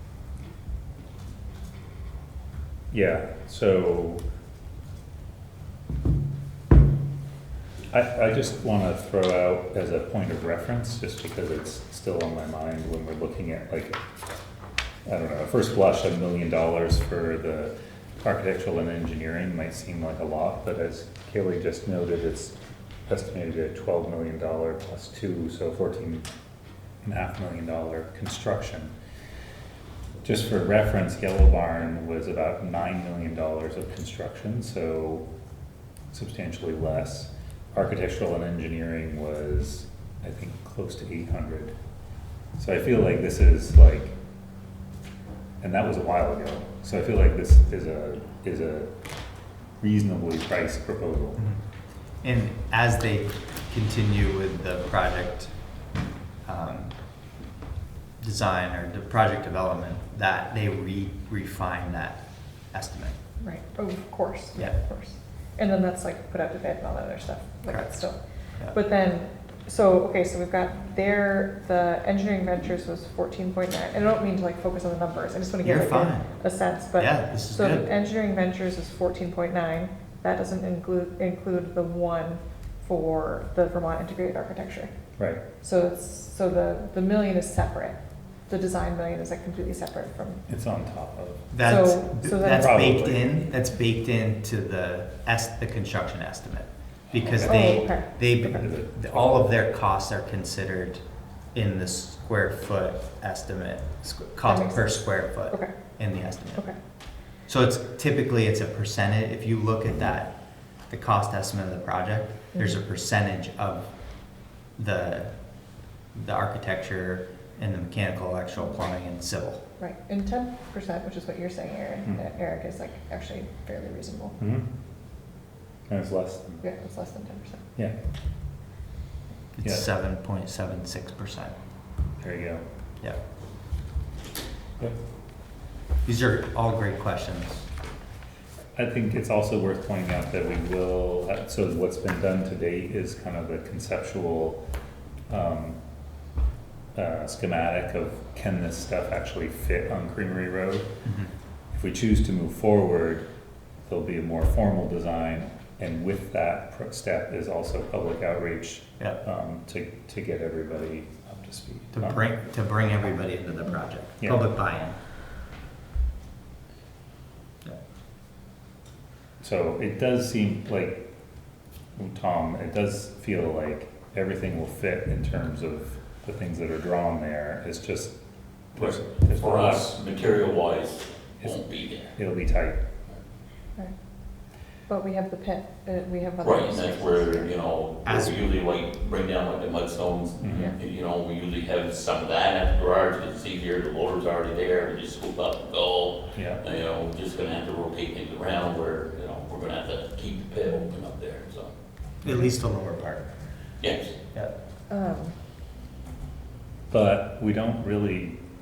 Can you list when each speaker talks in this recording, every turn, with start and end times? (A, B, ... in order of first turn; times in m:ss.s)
0:02.9-0:04.2 A
0:07.9-0:14.0 A
0:15.1-0:22.6 A
0:23.1-0:26.3 A
0:27.0-0:28.9 A
0:30.2-0:35.3 A
0:36.1-0:41.8 A
0:42.6-0:44.2 A
0:45.6-0:48.9 A
0:49.8-0:51.4 A
0:52.2-0:55.5 B
0:56.4-0:57.0 B
0:58.2-1:03.2 B
1:03.4-1:24.9 C
1:07.7-1:08.8 B
1:15.6-1:16.3 B
1:17.0-1:17.9 B
1:25.2-1:25.4 A
1:25.6-1:30.4 C
1:30.5-1:31.5 A
1:31.5-1:41.0 B
1:31.6-1:32.8 C
1:32.2-1:33.4 A
1:37.1-1:37.9 A
1:37.4-1:38.2 C
1:38.5-1:39.4 A
1:41.5-1:46.7 B
1:44.5-1:45.7 C
1:47.5-1:50.4 B
1:50.9-1:53.9 B
1:54.7-1:55.3 B
1:56.1-1:59.6 B
1:59.8-2:04.4 C
2:04.4-2:04.7 A
2:05.9-2:06.6 A
2:06.6-2:07.6 C
2:09.6-2:11.5 B
2:12.2-2:12.6 A
2:16.0-2:17.7 B
2:18.8-2:24.6 A
2:25.3-2:25.8 A
2:27.0-2:30.9 A
2:31.1-2:31.3 B
2:31.7-2:33.3 A
2:33.8-2:42.2 A
2:42.0-2:45.0 B
2:44.2-2:44.4 A
2:49.4-2:51.1 A
2:52.0-2:58.2 A
2:58.7-3:00.0 A
2:58.8-3:02.1 D
3:01.4-3:02.8 A
3:04.9-3:07.5 C
3:06.4-3:21.7 D
3:08.1-3:08.4 B
3:10.4-3:10.8 A
3:10.5-3:10.8 C
3:16.3-3:16.6 A
3:22.2-3:23.3 B
3:23.8-3:24.2 D
3:24.9-3:25.4 C
3:26.9-3:28.4 A